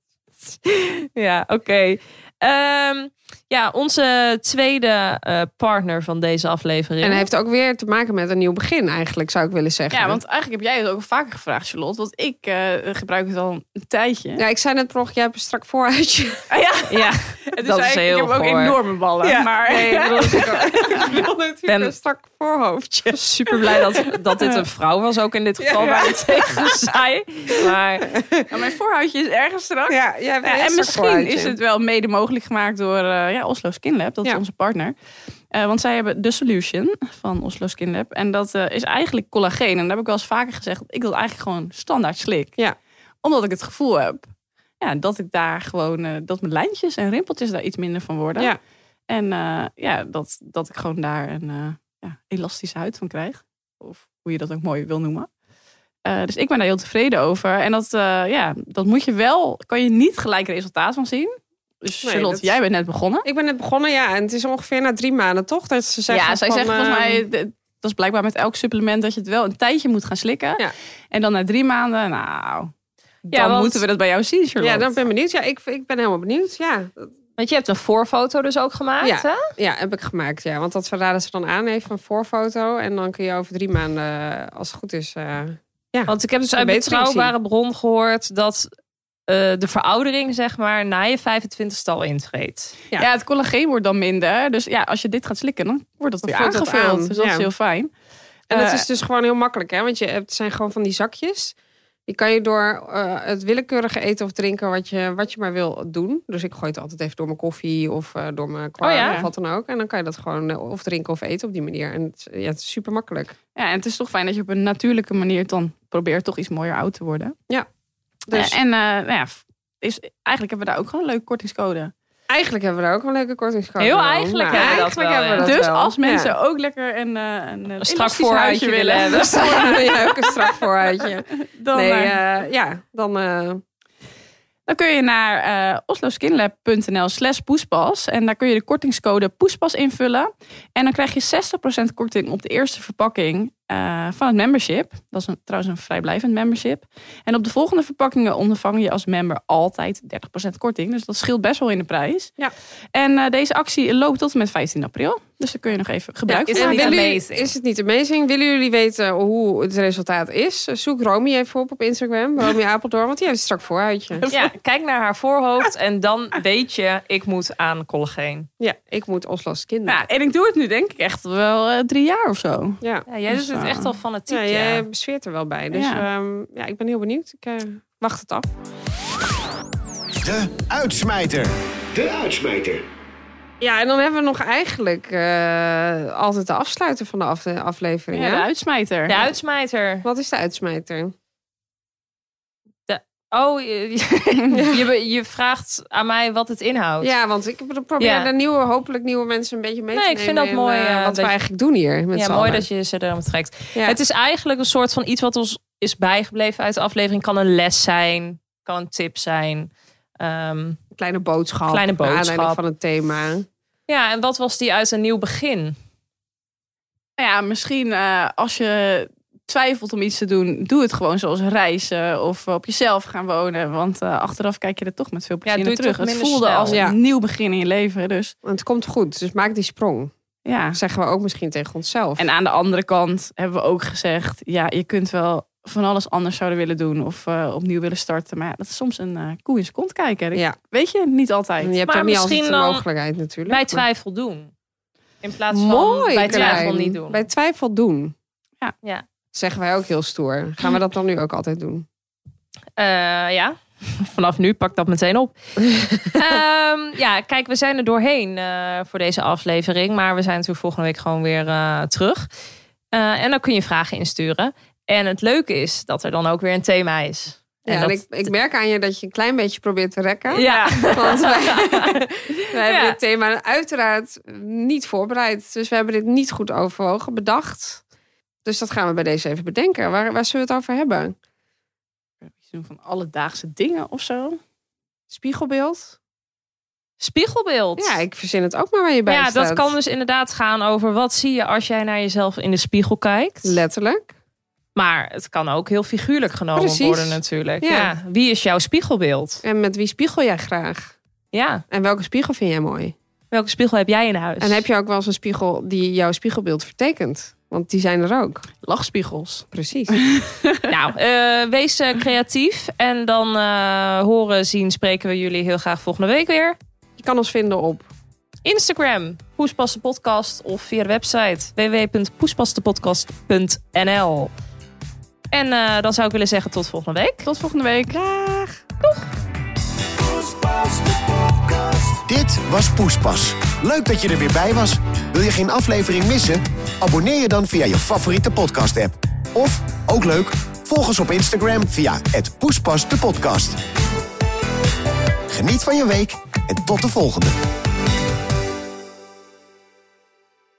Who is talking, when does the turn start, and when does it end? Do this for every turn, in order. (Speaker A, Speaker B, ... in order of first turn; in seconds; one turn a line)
Speaker A: 0.7-7.2
Speaker B: 7.0-10.2
Speaker C: 9.9-14.4
Speaker B: 14.4-16.5
Speaker C: 16.5-21.1
Speaker A: 16.9-18.8
Speaker B: 19.6-23.5
Speaker A: 21.7-21.9
Speaker A: 23.1-28.1
Speaker B: 25.6-26.7
Speaker B: 28.1-28.5
Speaker C: 28.5-34.9
Speaker B: 29.9-31.6
Speaker C: 35.5-42.5
Speaker C: 43.2-48.5
Speaker C: 49.1-55.3
Speaker C: 56.0-63.2
Speaker B: 62.0-62.6
Speaker B: 63.2-67.2
Speaker C: 66.1-72.7
Speaker C: 73.3-75.0
Speaker A: 73.3-73.8
Speaker B: 74.6-77.1
Speaker A: 77.4-79.5
Speaker B: 79.0-87.3
Speaker A: 86.1-88.7
Speaker A: 89.3-92.7
Speaker C: 93.0-97.9
Speaker B: 96.2-97.5
Speaker C: 98.5-98.8
Speaker B: 98.5-101.5
Speaker B: 102.1-113.3
Speaker A: 108.8-109.2
Speaker C: 109.0-109.2
Speaker C: 113.5-117.3
Speaker B: 118.2-118.5
Speaker C: 118.3-121.9
Speaker B: 122.3-126.3
Speaker A: 123.8-125.5
Speaker C: 125.4-130.3
Speaker A: 127.8-129.8
Speaker B: 129.1-133.6
Speaker C: 131.4-132.2
Speaker C: 134.7-152.3
Speaker C: 152.9-157.0
Speaker B: 156.3-164.2
Speaker A: 156.5-157.5
Speaker C: 164.2-164.5
Speaker A: 164.3-168.5
Speaker B: 168.6-170.0
Speaker C: 169.9-172.8
Speaker B: 172.8-178.5
Speaker A: 173.1-174.8
Speaker C: 175.7-176.0
Speaker D: 180.2-182.8
Speaker B: 183.6-188.5
Speaker C: 188.1-189.2
Speaker A: 189.1-190.1
Speaker B: 190.0-191.1
Speaker A: 192.9-197.1
Speaker B: 194.5-194.8
Speaker B: 197.0-202.7
Speaker A: 198.0-198.3
Speaker A: 199.9-201.3
Speaker A: 202.1-210.8
Speaker B: 210.9-213.5
Speaker A: 211.7-212.6
Speaker A: 213.9-215.8
Speaker C: 217.2-228.3
Speaker A: 225.4-226.8
Speaker B: 226.7-227.0
Speaker B: 228.4-230.1
Speaker C: 230.4-230.8
Speaker B: 230.7-232.3
Speaker C: 232.2-241.7
Speaker B: 241.6-243.8
Speaker A: 241.8-242.8
Speaker A: 243.5-244.5
Speaker A: 245.2-247.2
Speaker B: 245.5-248.1
Speaker C: 246.3-246.7
Speaker B: 249.3-251.9
Speaker A: 252.8-255.3
Speaker A: 256.0-262.3
Speaker A: 262.9-268.3
Speaker B: 267.6-277.8
Speaker A: 270.3-273.0
Speaker C: 270.4-270.6
Speaker B: 278.4-281.1
Speaker C: 282.2-284.4
Speaker B: 285.1-286.0
Speaker A: 287.0-288.0
Speaker B: 287.8-289.7
Speaker A: 289.1-293.6
Speaker B: 293.4-294.1
Speaker A: 294.8-299.4
Speaker B: 296.5-297.9
Speaker B: 299.4-300.9
Speaker A: 301.3-301.6
Speaker B: 301.7-302.9
Speaker A: 303.3-304.6
Speaker B: 304.4-308.4
Speaker C: 308.6-310.6
Speaker B: 309.5-310.0
Speaker A: 310.7-316.6
Speaker B: 317.0-317.9
Speaker A: 318.4-324.3
Speaker A: 325.3-327.3
Speaker C: 327.2-328.0
Speaker B: 327.9-328.6
Speaker D: 330.0-343.6
Speaker D: 345.3-347.3